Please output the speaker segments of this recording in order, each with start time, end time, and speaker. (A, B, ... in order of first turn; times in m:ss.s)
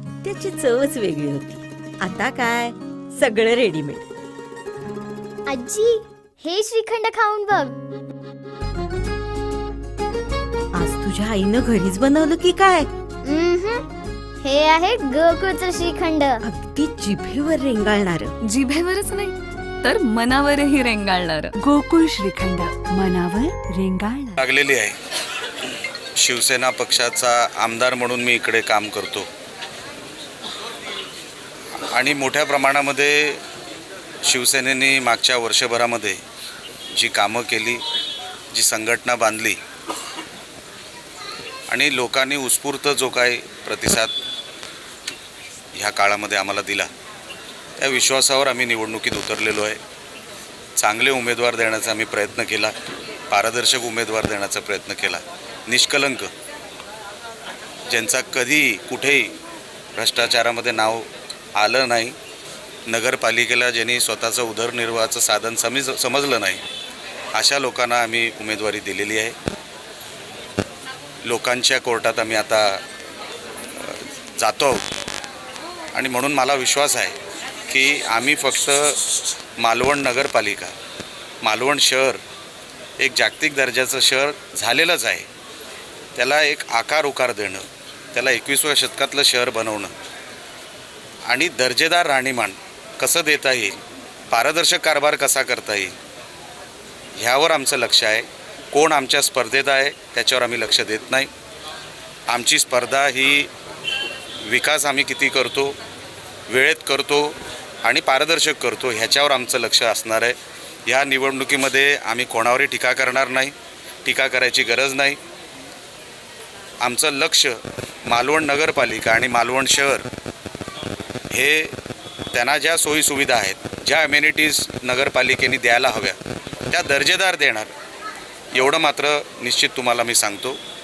0:00.2-0:04.0 A
0:05.5-0:07.7 B
0:10.8-0:12.9 A
0:13.2-0:13.9 B
0:14.4-0:16.4 B
0:16.5-0:18.3 A
0:18.5-0:21.5 C
0:21.6-0:24.4 D
0:24.4-0:25.0 E
0:26.2-0:29.3 E
0:31.9-0:33.4 E
0:34.2-0:36.2 E
0:37.0-0:37.8 E
0:38.5-0:39.6 E
0:41.7-0:44.1 E
0:45.8-0:46.9 E
0:47.8-0:49.8 E
0:50.8-0:52.7 E
0:53.3-0:56.3 E
0:57.9-0:59.3 E
1:00.0-1:02.2 E
1:02.9-1:06.6 E
1:07.3-1:09.3 E
1:11.2-1:12.8 E
1:13.8-1:14.8 E
1:15.9-1:17.2 E
1:17.7-1:19.0 E
1:19.6-1:20.7 E
1:21.4-1:22.2 E
1:23.0-1:25.3 E
1:26.2-1:29.9 E
1:31.3-1:33.8 E
1:34.3-1:36.0 E
1:37.2-1:41.3 E
1:42.3-1:43.5 E
1:44.4-1:45.7 E
1:46.5-1:50.4 E
1:50.9-1:53.5 E
1:54.0-1:55.2 E
1:56.8-2:00.1 E
2:01.3-2:01.7 E
2:02.3-2:06.2 E
2:06.7-2:07.7 E
2:08.5-2:10.6 E